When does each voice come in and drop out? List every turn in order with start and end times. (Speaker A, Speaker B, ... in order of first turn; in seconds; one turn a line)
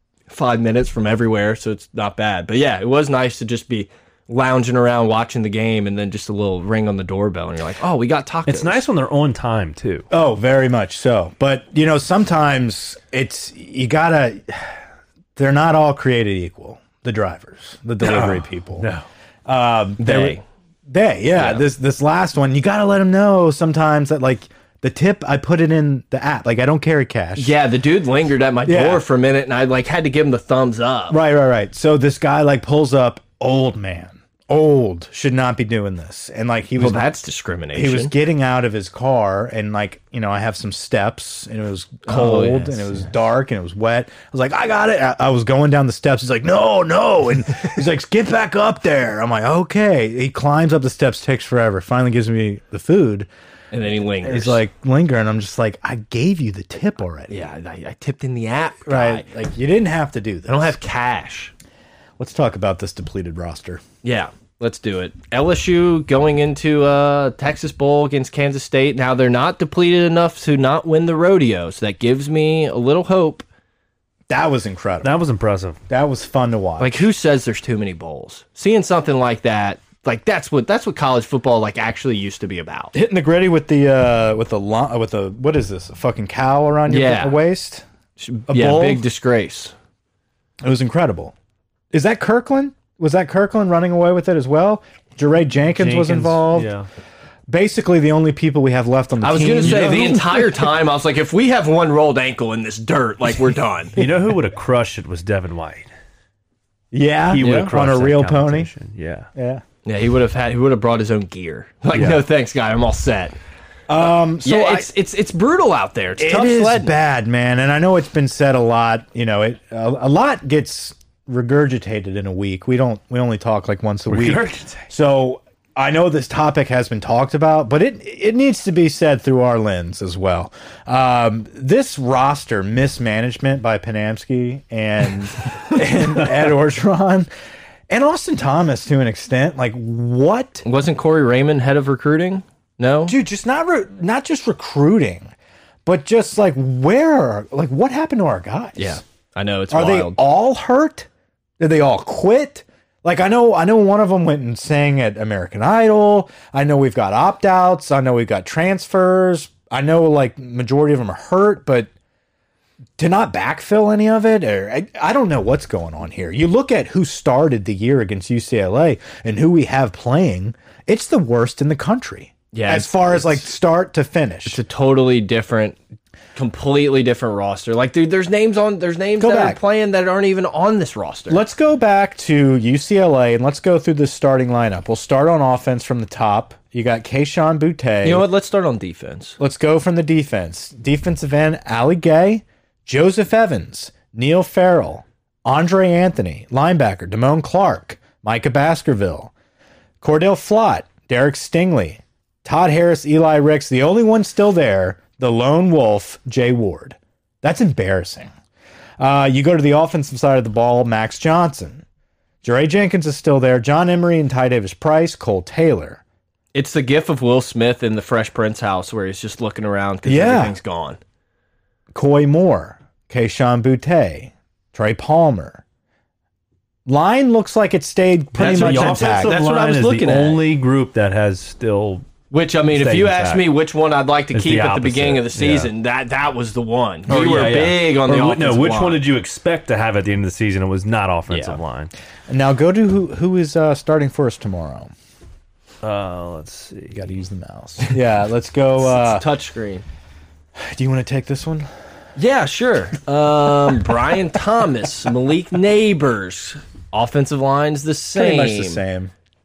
Speaker A: 0.3-8.8
Speaker B: 8.5-10.1
Speaker C: 10.1-14.8
Speaker C: 15.3-18.9
Speaker B: 18.0-19.0
Speaker C: 19.4-27.5
Speaker A: 20.0-20.4
Speaker A: 21.3-21.6
Speaker A: 27.4-31.2
Speaker C: 28.6-29.0
Speaker C: 31.1-37.1
Speaker A: 36.8-38.1
Speaker C: 37.7-53.3
Speaker A: 42.0-43.0
Speaker A: 53.7-54.6
Speaker C: 54.2-57.4
Speaker A: 57.3-59.2
Speaker C: 58.9-60.7
Speaker A: 60.5-61.5
Speaker C: 62.2-63.8
Speaker A: 64.0-73.4
Speaker C: 74.3-75.1
Speaker B: 75.0-75.8
Speaker C: 75.9-77.0
Speaker A: 76.8-82.9
Speaker C: 82.9-87.8
Speaker A: 86.9-87.4
Speaker A: 88.2-89.7
Speaker C: 88.5-89.0
Speaker C: 90.6-91.3
Speaker C: 91.9-96.7
Speaker B: 95.7-96.9
Speaker C: 97.5-100.7
Speaker A: 99.2-103.9
Speaker B: 99.6-100.2
Speaker B: 104.0-105.9
Speaker C: 106.9-108.7
Speaker B: 107.3-109.3
Speaker C: 109.3-109.6
Speaker A: 109.8-113.3
Speaker B: 111.9-112.2
Speaker C: 113.9-114.9
Speaker A: 114.4-117.0
Speaker C: 116.2-137.3
Speaker B: 124.1-124.9
Speaker C: 137.9-140.6
Speaker A: 140.6-143.1
Speaker C: 143.1-145.3
Speaker C: 145.8-149.0
Speaker A: 148.8-150.2
Speaker C: 149.7-151.1
Speaker C: 151.6-161.9
Speaker C: 163.0-174.6
Speaker A: 172.5-173.4
Speaker A: 174.4-175.8
Speaker A: 176.3-181.4
Speaker C: 179.2-179.6
Speaker C: 181.3-188.2
Speaker A: 188.0-189.4
Speaker C: 189.4-199.3
Speaker C: 200.0-208.3
Speaker C: 209.0-211.8
Speaker C: 212.4-216.0
Speaker A: 216.5-221.0
Speaker C: 220.1-220.6
Speaker C: 221.9-225.6
Speaker C: 226.8-229.3
Speaker A: 228.4-230.4
Speaker B: 228.4-232.1
Speaker A: 232.3-239.0
Speaker B: 232.7-233.5
Speaker B: 234.3-235.7
Speaker B: 237.1-241.9
Speaker A: 241.3-241.6
Speaker C: 242.3-244.9
Speaker B: 245.8-247.0
Speaker C: 246.9-249.2
Speaker A: 248.8-249.8
Speaker C: 250.6-251.7
Speaker A: 252.2-258.8
Speaker C: 258.1-259.1